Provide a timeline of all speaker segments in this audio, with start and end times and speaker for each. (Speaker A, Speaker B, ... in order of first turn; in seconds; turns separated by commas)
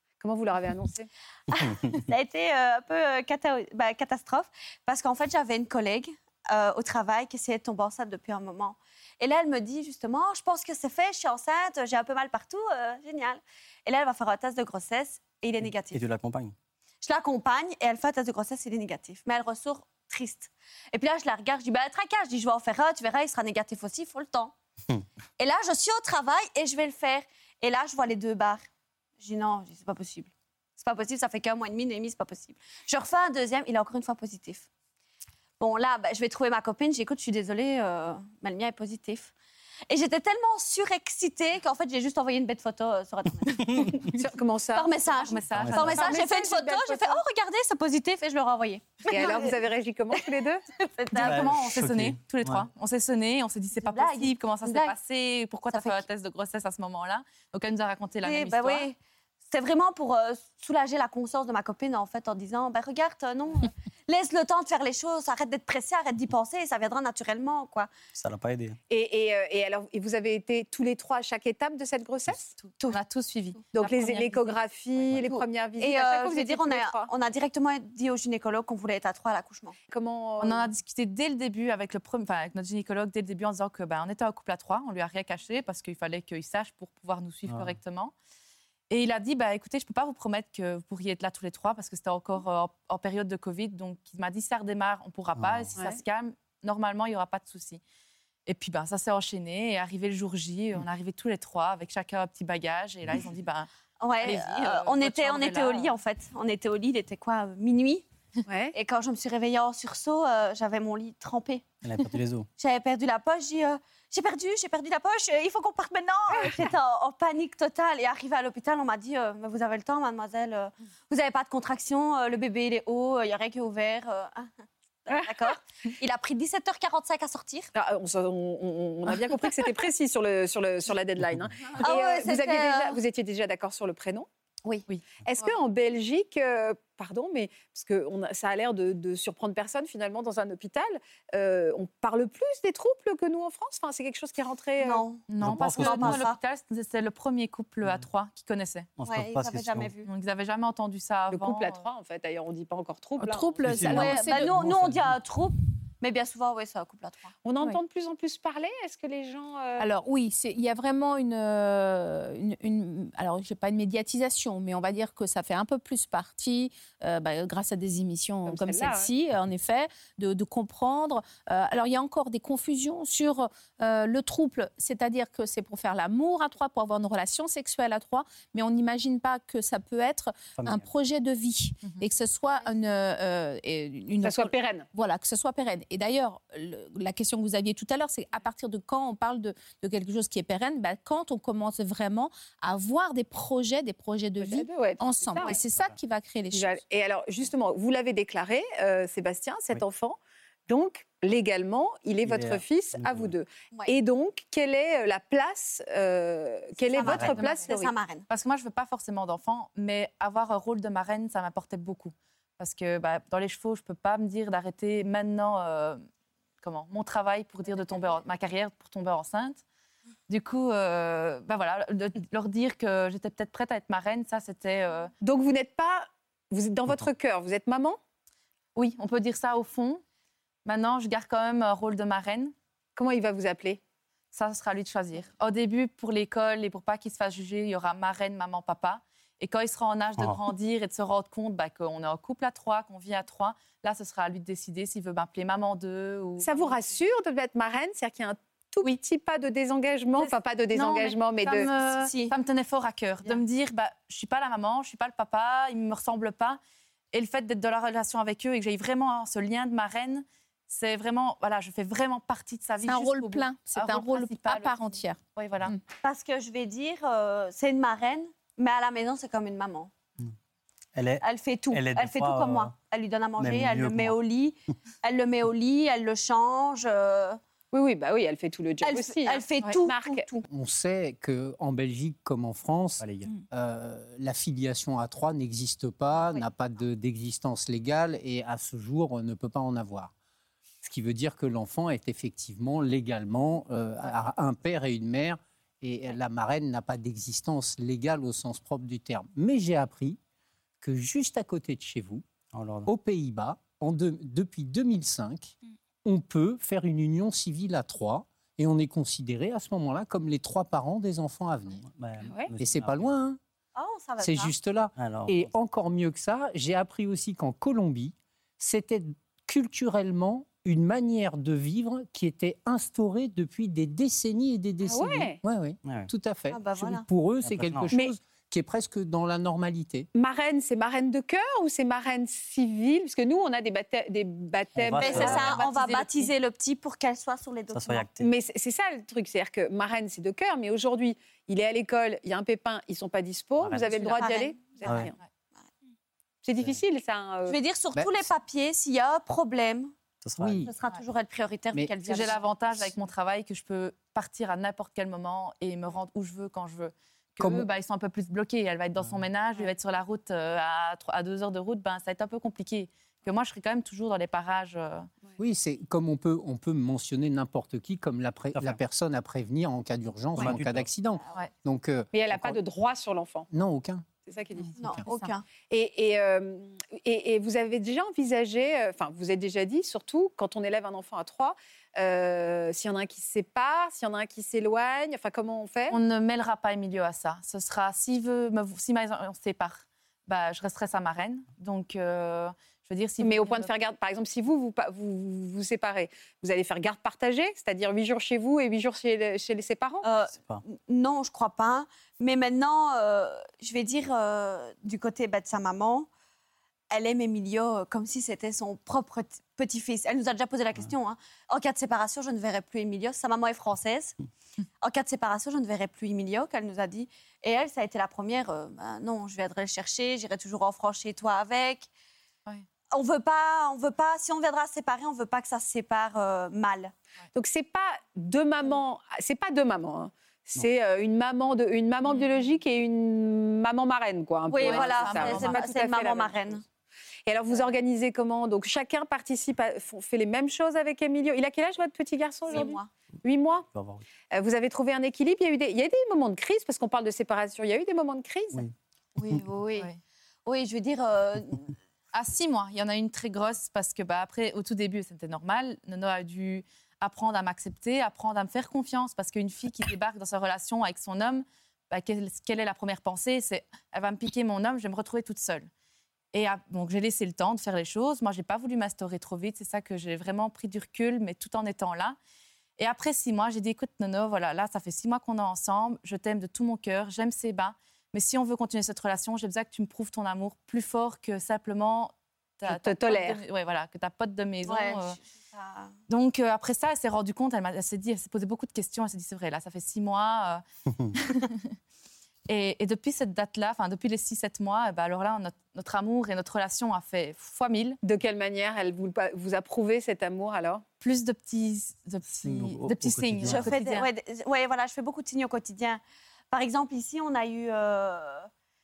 Speaker A: 0.2-1.1, Speaker B: 1.5-16.0, Speaker C: 15.7-16.5, Speaker B: 17.0-24.5, Speaker B: 25.4-28.6, Speaker B: 29.2-34.7, Speaker B: 35.6-39.3, Speaker B: 39.9-44.0, Speaker C: 43.6-43.9, Speaker A: 44.1-44.9, Speaker B: 44.7-49.5, Speaker D: 45.2-46.2, Speaker A: 45.7-47.2, Speaker A: 49.1-50.6, Speaker B: 50.8-51.5, Speaker D: 51.1-58.9, Speaker C: 51.1-52.6, Speaker B: 53.8-54.9, Speaker B: 55.7-56.0, Speaker B: 58.2-67.9, Speaker C: 68.1-68.8, Speaker A: 68.9-72.5, Speaker D: 72.6-75.0, Speaker A: 73.7-77.1, Speaker B: 75.2-79.8, Speaker A: 79.9-80.7, Speaker D: 80.4-88.1, Speaker C: 87.5-87.8, Speaker D: 88.9-97.8, Speaker C: 95.3-95.7, Speaker D: 98.5-103.7, Speaker B: 104.0-108.0, Speaker D: 104.2-105.9, Speaker A: 108.5-108.7, Speaker B: 108.7-111.7, Speaker C: 111.8-112.5, Speaker B: 112.6-124.5, Speaker A: 116.3-116.6, Speaker B: 125.0-127.7, Speaker A: 127.7-134.3, Speaker B: 131.8-133.0, Speaker A: 135.2-145.0, Speaker B: 144.8-146.4, Speaker D: 145.3-148.9, Speaker C: 145.4-146.2, Speaker C: 149.0-149.9, Speaker B: 149.0-150.1, Speaker D: 150.0-151.8, Speaker A: 151.3-153.7, Speaker E: 153.2-154.6, Speaker C: 153.6-155.2, Speaker B: 153.7-157.3, Speaker A: 157.4-159.8, Speaker E: 159.8-196.8, Speaker A: 168.4-169.1, Speaker C: 180.6-180.8, Speaker A: 184.2-184.9, Speaker A: 194.4-195.6, Speaker A: 196.5-200.2, Speaker A: 200.7-207.9, Speaker C: 202.2-203.3, Speaker B: 206.8-208.2, Speaker C: 207.0-207.3, Speaker D: 207.2-207.7, Speaker D: 208.3-216.0, Speaker D: 216.6-219.6, Speaker D: 220.3-225.1, Speaker A: 225.2-228.0, Speaker D: 228.8-230.0, Speaker D: 230.6-232.5, Speaker A: 232.9-233.8, Speaker D: 234.3-246.8, Speaker A: 246.4-251.7, Speaker D: 250.2-256.6, Speaker B: 251.8-252.3, Speaker D: 257.1-265.7, Speaker E: 262.9-265.2, Speaker B: 266.0-269.9, Speaker C: 270.9-272.7, Speaker B: 271.2-277.4, Speaker C: 273.4-274.2, Speaker A: 277.7-280.4, Speaker B: 278.8-280.4, Speaker F: 280.5-290.1, Speaker C: 283.0-283.3, Speaker F: 290.8-300.2, Speaker F: 300.8-302.2, Speaker C: 302.5-302.9, Speaker F: 302.9-311.8, Speaker C: 311.8-313.1, Speaker F: 312.6-313.4, Speaker B: 313.7-314.5, Speaker F: 314.2-330.1, Speaker C: 314.9-315.5, Speaker A: 324.8-325.4, Speaker C: 325.8-326.1, Speaker B: 326.5-327.1, Speaker C: 327.4-327.9, Speaker A: 330.1-335.4, Speaker C: 334.7-335.6, Speaker B: 335.0-338.1, Speaker D: 335.1-336.3, Speaker C: 337.7-338.3, Speaker A: 338.2-345.1, Speaker C: 343.6-344.2, Speaker B: 344.2-345.0, Speaker C: 344.8-345.1, Speaker A: 346.4-347.6, Speaker B: 347.4-349.9, Speaker F: 347.9-348.2, Speaker C: 350.2-350.7, Speaker F: 350.4-350.7, Speaker B: 350.6-352.4, Speaker D: 352.0-365.1, Speaker F: 357.4-357.7, Speaker F: 365.4-372.6, Speaker C: 368.5-368.8, Speaker C: 370.4-370.9, Speaker A: 372.1-373.5, Speaker F: 373.5-374.1, Speaker A: 374.2-374.8, Speaker B: 374.8-375.4, Speaker F: 374.8-375.1, Speaker A: 375.7-385.9, Speaker D: 385.9-393.7, Speaker A: 393.2-400.0, Speaker B: 400.0-406.1, Speaker B: 406.9-414.1, Speaker B: 414.8-421.9, Speaker B: 422.9-426.9, Speaker A: 427.3-436.4, Speaker B: 434.5-436.6, Speaker D: 434.6-435.6, Speaker A: 437.3-443.7, Speaker B: 442.5-442.9, Speaker C: 443.7-444.0, Speaker A: 444.3-448.7, Speaker B: 449.1-449.9, Speaker B: 450.4-451.8, Speaker D: 452.1-465.7, Speaker D: 466.3-472.2, Speaker D: 472.8-485.2, Speaker A: 482.7-483.4, Speaker B: 484.6-485.9, Speaker D: 486.1-490.6, Speaker D: 491.1-491.6, Speaker D: 492.5-498.0, Speaker A: 498.0-500.8, Speaker D: 501.0-504.1, Speaker C: 502.4-503.7, Speaker B: 503.4-506.0, Speaker B: 506.5-508.5